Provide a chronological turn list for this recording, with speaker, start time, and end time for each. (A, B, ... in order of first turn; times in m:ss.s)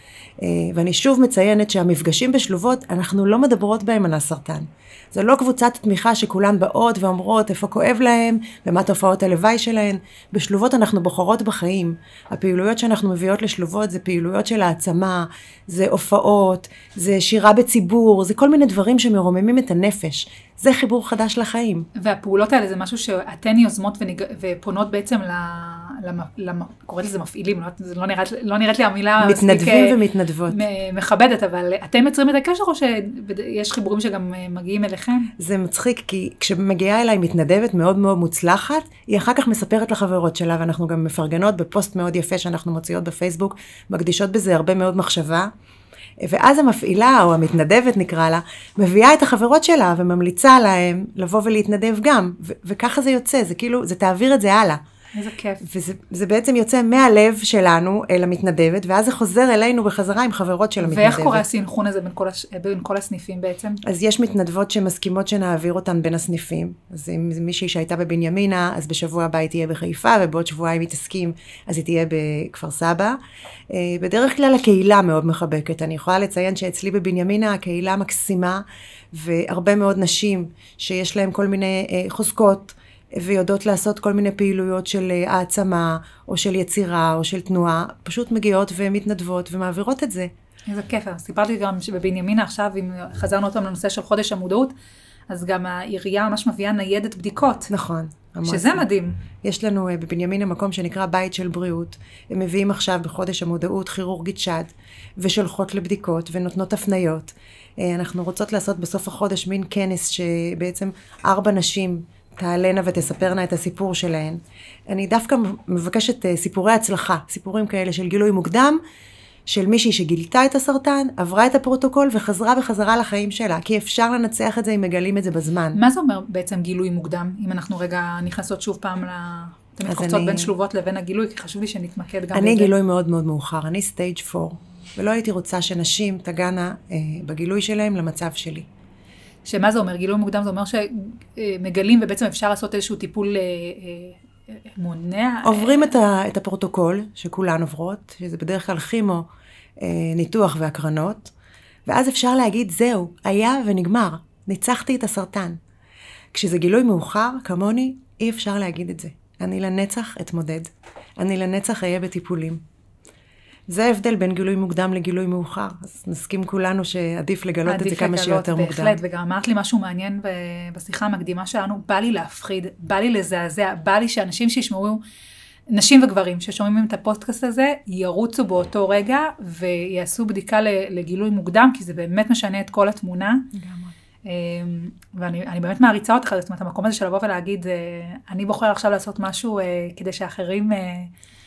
0:00.4-0:21.9 A
0:22.0-0:30.0 B
0:29.2-0:30.6 A
0:30.5-0:35.3 B
0:35.4-0:45.5 A
0:46.2-0:54.8 A
0:55.2-0:55.6 B
0:55.6-1:01.4 A
1:00.8-1:03.8 B
1:03.8-1:13.2 A
1:13.7-1:30.3 A
1:30.7-1:34.7 B
1:35.3-1:37.7 B
1:37.7-1:38.9 A
1:38.4-1:39.2 B
1:39.4-1:58.8 A
1:59.5-2:05.8 A
2:05.8-2:12.7 B
2:09.9-2:10.5 A
2:12.3-2:18.7 A
2:19.4-2:26.0 B
2:25.4-2:29.3 A
2:29.8-2:31.3 A
2:31.9-2:35.6 A
2:36.3-2:42.6 A
2:43.7-2:49.0 A
2:47.7-2:55.0 B
2:55.7-3:03.5 B
3:03.5-3:03.9 A
3:04.3-3:11.1 B